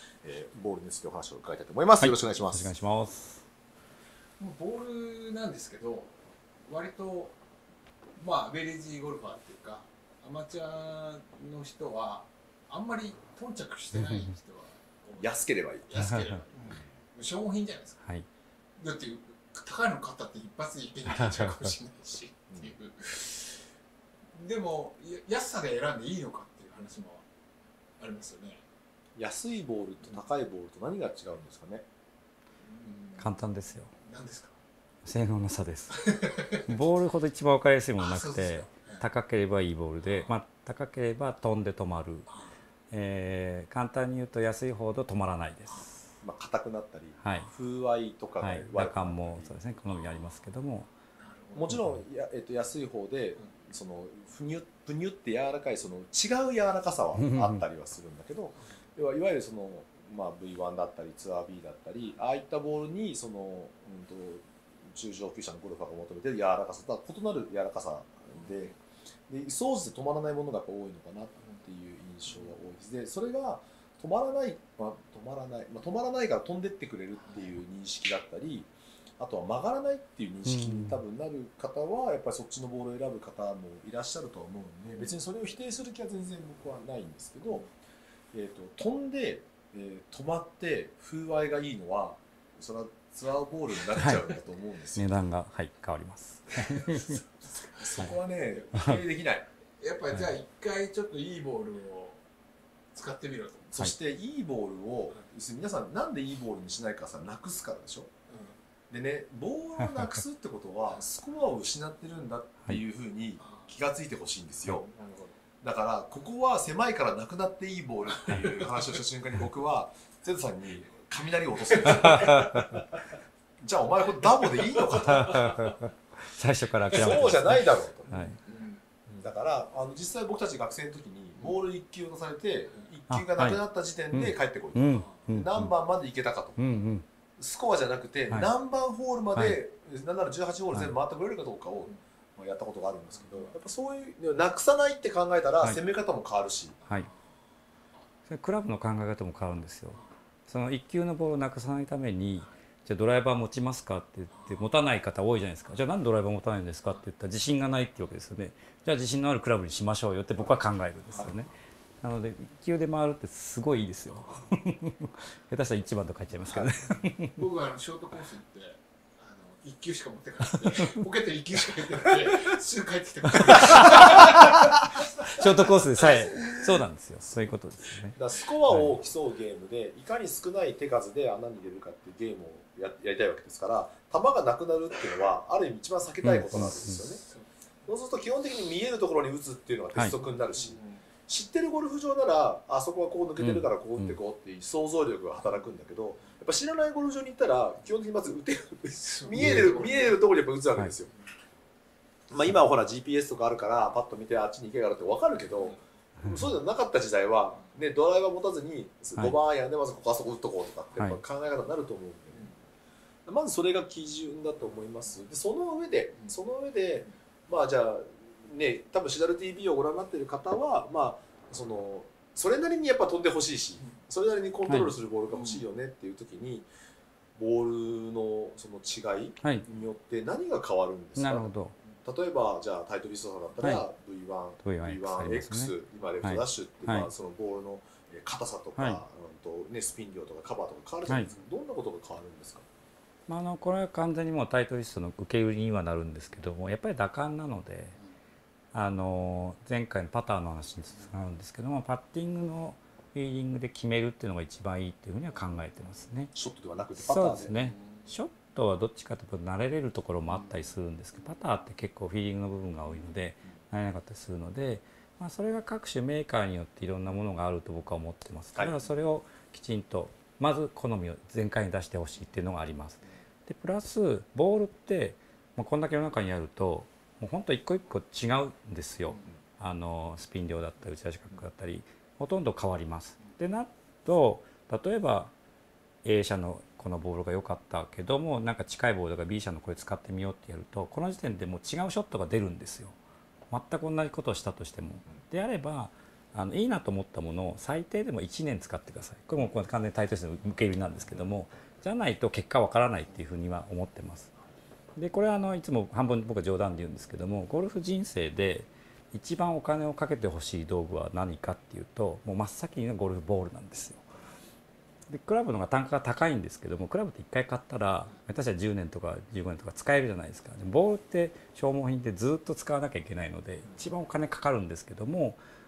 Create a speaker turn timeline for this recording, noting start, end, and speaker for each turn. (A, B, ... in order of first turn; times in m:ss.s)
0:00.2-0:02.7 A
0:02.0-0:03.4 B
0:04.4-0:06.1 C
0:06.7-0:07.4 C
0:08.2-0:18.0 C
0:13.9-0:14.3 B
0:15.2-0:16.0 A
0:16.0-0:16.4 B
0:16.6-0:16.9 A
0:18.8-0:23.7 C
0:21.0-0:21.8 B
0:24.3-0:27.2 C
0:28.0-0:28.6 C
0:29.2-0:31.8 A
0:32.6-0:33.4 C
0:33.2-0:33.9 B
0:34.0-0:34.6 C
0:35.0-0:36.0 B
0:35.9-0:36.7 C
0:36.6-0:42.3 B
0:38.0-0:39.0 C
0:40.0-0:40.3 C
0:42.9-0:45.9 B
0:46.2-0:49.5 A
0:47.2-0:47.5 B
0:48.4-0:50.9 B
0:51.2-0:51.7 C
0:51.5-1:08.7 A
0:51.7-0:52.0 B
0:57.2-0:57.6 B
1:08.4-1:08.7 C
1:09.3-1:27.6 A
1:17.2-1:17.6 C
1:20.4-1:21.0 B
1:28.3-1:35.1 A
1:34.9-1:37.2 B
1:37.7-1:39.5 A
1:38.7-1:39.0 B
1:39.8-1:42.2 C
1:42.9-1:43.7 C
1:43.7-1:48.1 A
1:48.3-1:48.6 C
1:48.9-1:54.8 A
1:49.8-1:50.2 B
1:53.4-1:53.8 C
1:54.7-1:55.4 C
1:55.6-2:02.8 A
2:01.9-2:02.2 C
2:02.1-2:02.6 B
2:03.6-2:05.5 A
2:04.9-2:08.4 B
2:06.9-2:08.4 A
2:08.4-2:08.8 C
2:09.1-2:16.6 A
2:13.1-2:13.6 B
2:14.1-2:15.7 B
2:14.9-2:15.2 C
2:16.6-2:17.0 B
2:17.4-2:26.8 A
2:23.2-2:23.5 C
2:26.8-2:27.2 C
2:28.3-2:41.5 B
2:34.3-2:34.7 C
2:41.1-2:41.4 C
2:42.0-2:47.4 B
2:47.3-2:54.8 C
2:50.7-2:51.0 B
2:53.4-2:58.2 B
2:53.7-2:54.0 A
2:55.3-2:56.6 C
2:58.1-3:07.2 A
2:58.7-2:59.0 B
3:06.2-3:07.0 B
3:07.8-3:21.1 A
3:10.5-3:11.0 C
3:13.4-3:14.2 B
3:19.0-3:20.2 C
3:19.4-3:19.7 B
3:22.3-3:32.5 A
3:33.2-3:46.7 A
3:44.7-3:44.9 B
3:45.3-3:45.6 C
3:47.4-3:51.5 A
3:51.2-3:51.7 B
3:52.0-4:02.6 A
3:54.6-3:57.1 B
3:58.8-3:59.0 B
4:03.3-4:08.0 B
4:08.7-4:16.3 B
4:16.3-4:17.5 A
4:17.0-4:45.3 B
4:17.6-4:18.0 C
4:46.0-4:53.0 B
4:53.5-5:04.3 B
5:04.9-5:14.0 B
5:15.1-5:25.4 B